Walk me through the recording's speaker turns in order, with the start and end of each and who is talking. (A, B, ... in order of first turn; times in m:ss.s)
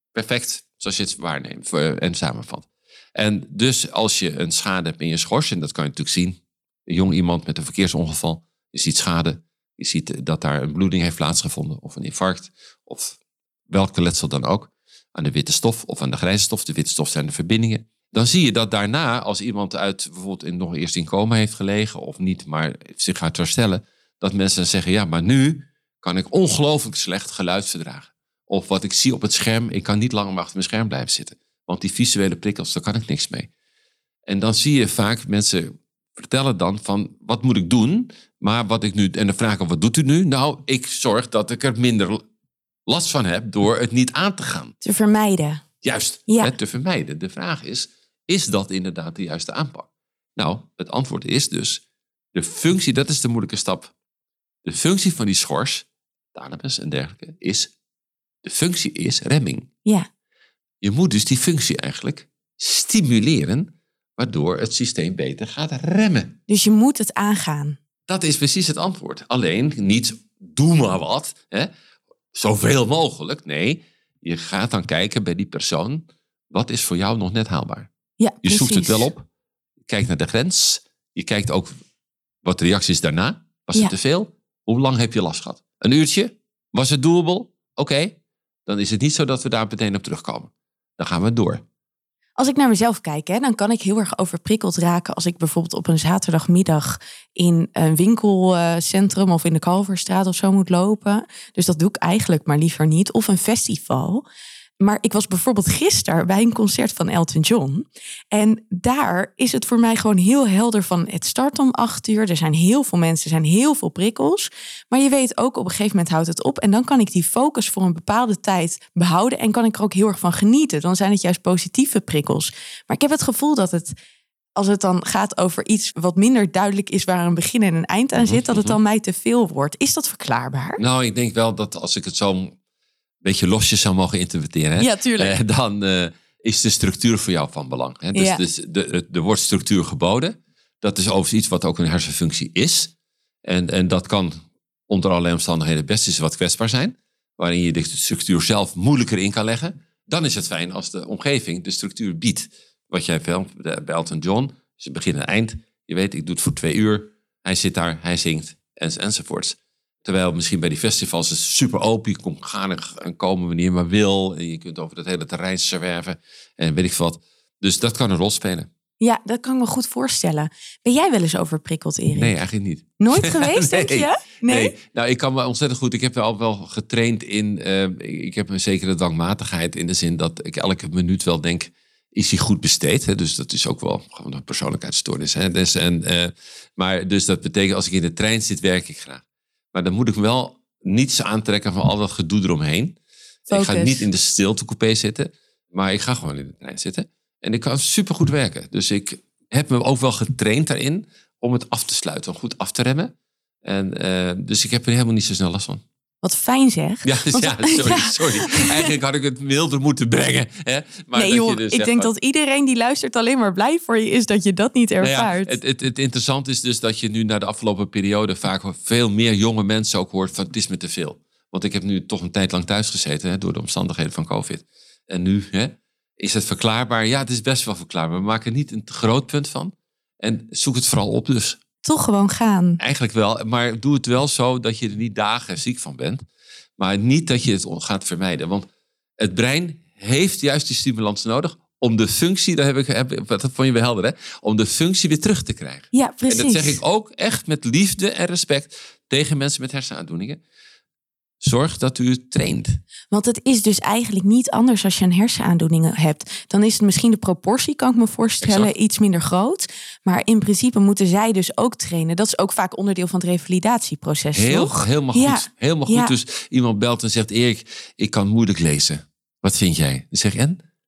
0:00.1-0:13.2 A
0:13.7-0:33.5 A
0:34.3-0:42.2 A
0:42.9-0:44.7 A
0:44.8-0:45.6 B
0:45.8-0:51.8 A
0:46.3-0:46.5 B
0:52.3-0:53.9 A
0:54.6-0:57.7 A
0:58.4-0:59.7 A
1:00.8-1:06.4 A
1:06.5-1:07.8 B
1:08.1-1:11.7 A
1:12.3-1:17.9 A
1:18.2-1:19.1 B
1:18.4-1:19.3 A
1:19.9-1:21.7 A
1:22.4-1:31.6 A
1:32.4-1:44.3 B
1:44.8-2:03.9 B
2:04.6-2:10.8 B
2:08.2-2:08.8 A
2:10.8-2:12.6 A
2:13.2-2:22.9 A
2:14.8-2:15.4 B
2:18.1-2:18.4 B
2:23.4-2:24.4 A
2:24.9-2:48.7 A
2:49.0-2:52.4 B
2:52.2-3:13.0 A
2:53.0-2:54.7 B
3:13.5-3:23.1 A
3:13.5-3:14.1 B
3:23.6-3:25.8 A
3:26.2-3:28.9 B
3:27.0-3:32.1 A
3:31.2-3:35.6 B
3:35.0-3:51.6 A
3:51.8-3:52.8 B
3:52.8-3:56.2 A
3:56.8-3:58.7 A
3:59.2-4:10.4 A
4:05.9-4:06.8 B
4:11.4-4:12.8 A
4:13.1-4:26.1 B
4:18.4-4:18.7 A
4:24.4-4:30.6 A